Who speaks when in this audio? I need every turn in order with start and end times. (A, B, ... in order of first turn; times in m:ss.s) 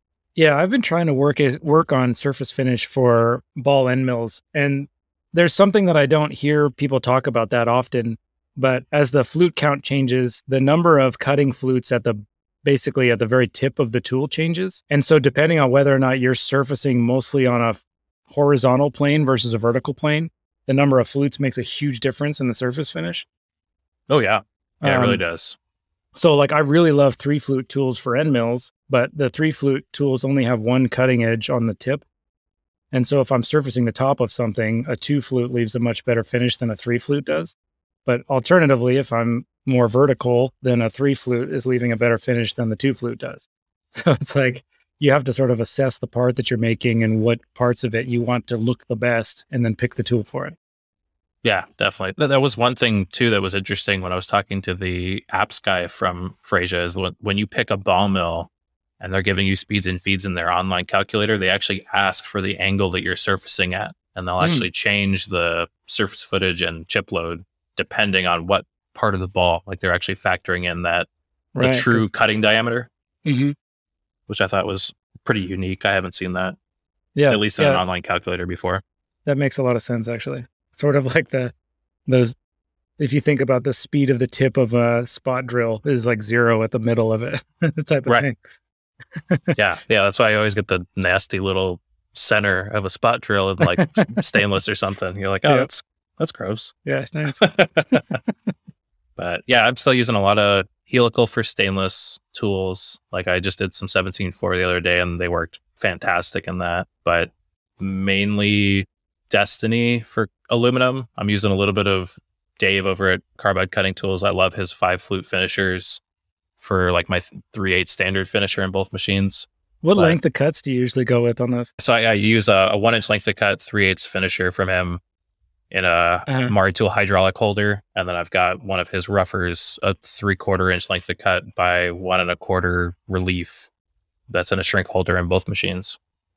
0:00.4-0:23.3 A
0:24.1-0:25.6 B
0:24.8-0:25.2 A
0:26.2-0:32.0 A
0:32.9-0:37.5 A
0:38.1-0:50.6 A
0:51.4-0:58.5 B
0:59.0-1:11.1 B
1:04.4-1:04.7 A
1:11.6-1:12.1 A
1:11.6-1:12.9 B
1:13.2-1:13.6 A
1:14.3-1:16.6 B
1:17.2-1:17.8 A
1:17.3-1:18.8 B
1:19.3-1:21.5 A
1:22.1-1:22.3 A
1:23.0-1:28.4 A
1:29.2-1:29.6 A
1:29.6-1:36.7 B
1:33.8-1:34.1 A
1:36.9-1:38.0 A
1:37.3-1:38.2 B
1:39.2-1:56.0 B
1:56.6-2:00.2 B
1:59.8-2:01.7 A
2:01.8-2:05.0 B
2:05.7-2:13.7 B
2:06.3-2:06.5 A
2:14.3-2:16.0 B